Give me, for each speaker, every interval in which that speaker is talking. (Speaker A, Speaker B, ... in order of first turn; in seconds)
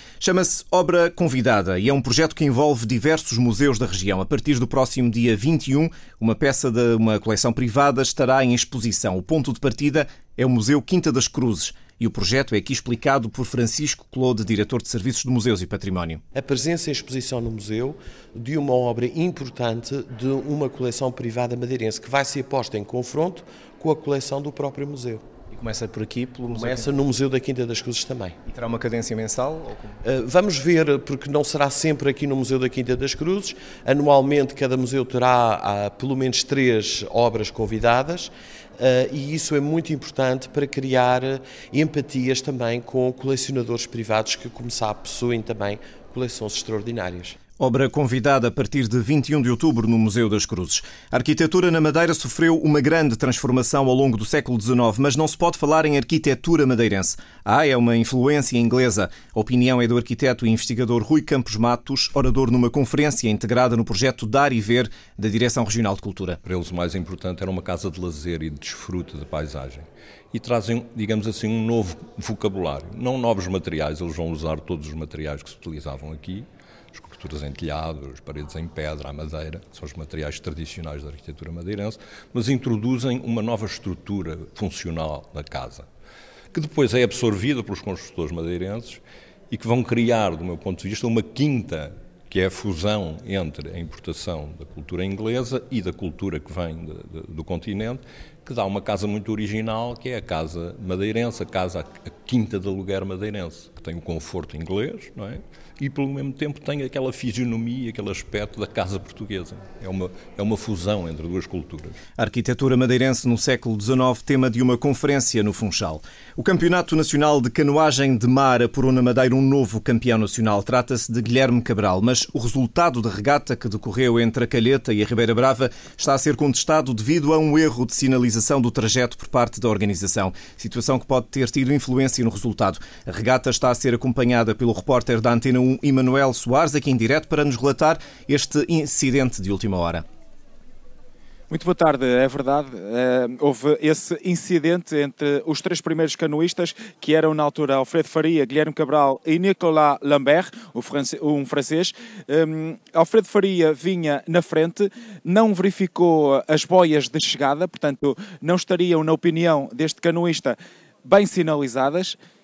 Speaker A: 0.2-16.2, 25.5-26.9, 28.4-30.0, 47.6-66.4, 112.2-140.0
Speaker B: 16.3-25.2, 26.5-28.4, 30.0-47.4
Speaker C: 66.5-85.8, 86.5-111.9
Speaker D: 141.5-162.2